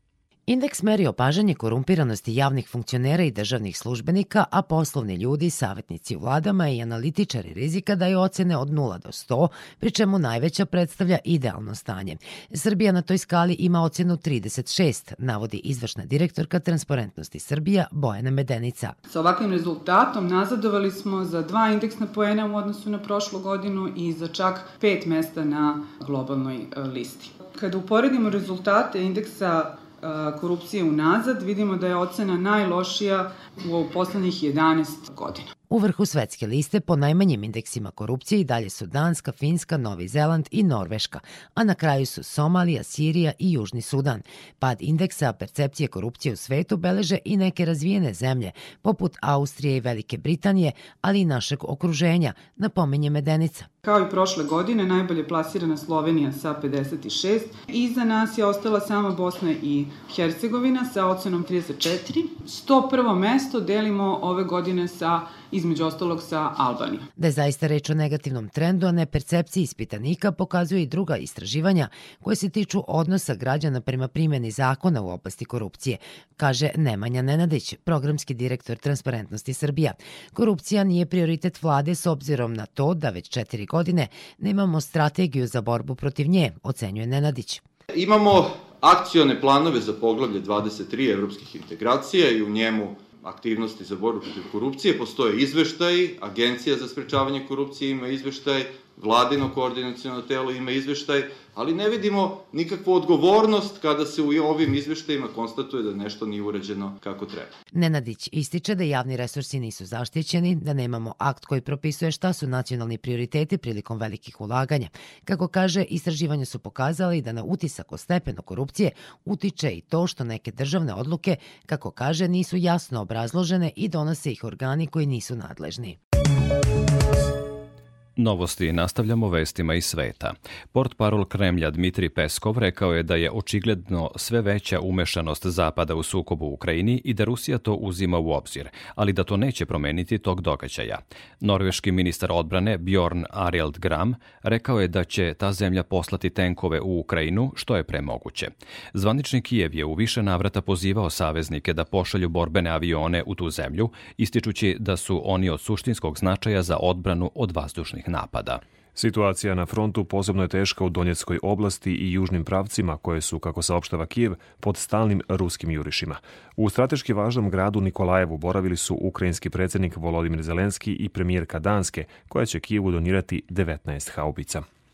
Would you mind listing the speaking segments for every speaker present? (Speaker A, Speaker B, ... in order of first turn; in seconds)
Speaker A: 0.5-18.9, 35.7-53.7, 67.2-87.6, 107.7-126.0
Speaker B: 19.1-35.5, 53.8-67.1
Speaker C: 87.9-107.5
Speaker D: 128.2-158.6
Speaker E: 158.9-174.6